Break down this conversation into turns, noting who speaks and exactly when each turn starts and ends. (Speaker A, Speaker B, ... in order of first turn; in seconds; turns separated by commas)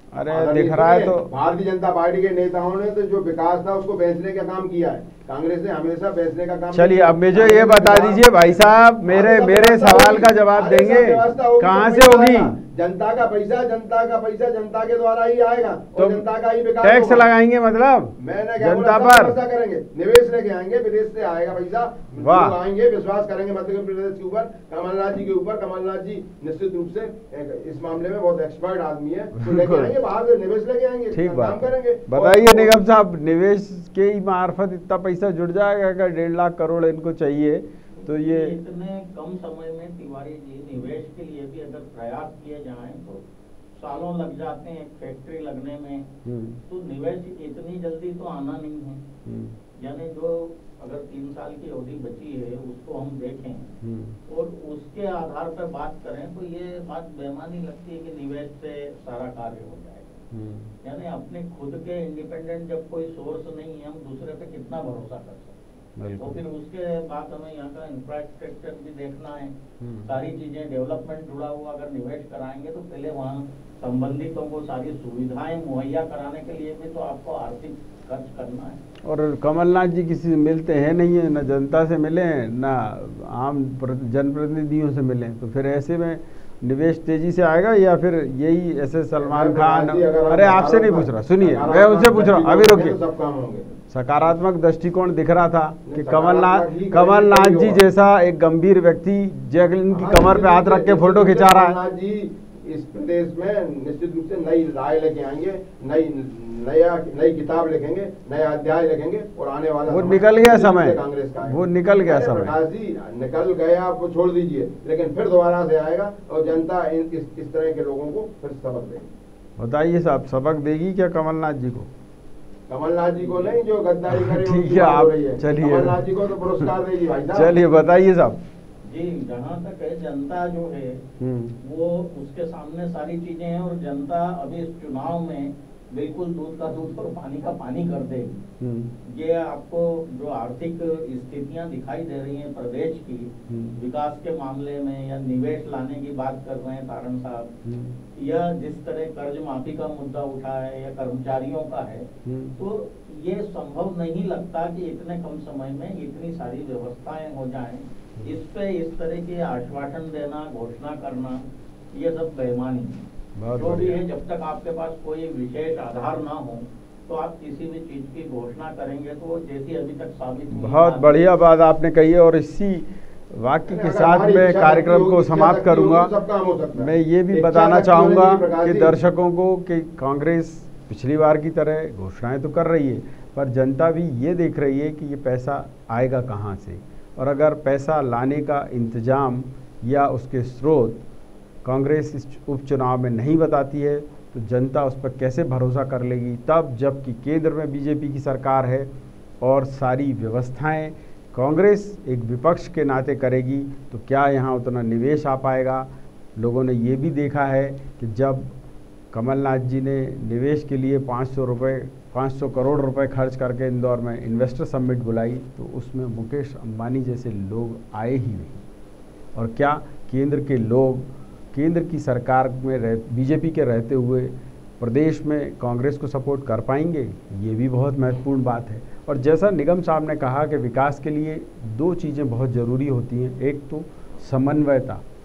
Speaker A: 0.1-1.3, Speaker B: 0.2-17.3, Speaker A: 6.7-12.5, Speaker A: 15.9-16.2, Speaker A: 16.8-19.4, Speaker B: 18.2-32.8, Speaker A: 22.2-22.6, Speaker A: 29.4-29.9, Speaker A: 31.1-38.5, Speaker C: 38.0-43.2, Speaker C: 43.8-46.1, Speaker A: 46.2-46.6, Speaker C: 46.7-49.0, Speaker A: 49.2-49.6, Speaker C: 49.8-53.7, Speaker A: 53.8-54.2, Speaker C: 54.3-60.2, Speaker A: 60.3-60.7, Speaker C: 60.8-78.8, Speaker A: 66.0-66.4, Speaker A: 69.8-70.1, Speaker A: 79.0-93.0, Speaker B: 89.2-93.7, Speaker A: 93.9-101.8, Speaker B: 95.8-97.8, Speaker B: 99.9-119.0, Speaker A: 109.9-112.6, Speaker A: 119.6-121.9, Speaker B: 122.7-127.5, Speaker A: 124.1-126.0, Speaker A: 127.3-128.4, Speaker C: 128.8-131.0, Speaker A: 131.2-131.6, Speaker C: 131.6-138.4, Speaker A: 138.6-138.9, Speaker C: 139.1-147.5, Speaker A: 143.5-143.8, Speaker A: 147.6-148.0, Speaker C: 148.1-163.0, Speaker A: 152.2-152.6, Speaker A: 163.4-164.0, Speaker C: 163.5-171.2, Speaker A: 170.5-176.1, Speaker B: 173.7-178.9, Speaker A: 176.8-191.0, Speaker A: 191.6-198.9, Speaker A: 199.4-208.5, Speaker A: 209.1-218.6, Speaker A: 219.3-235.0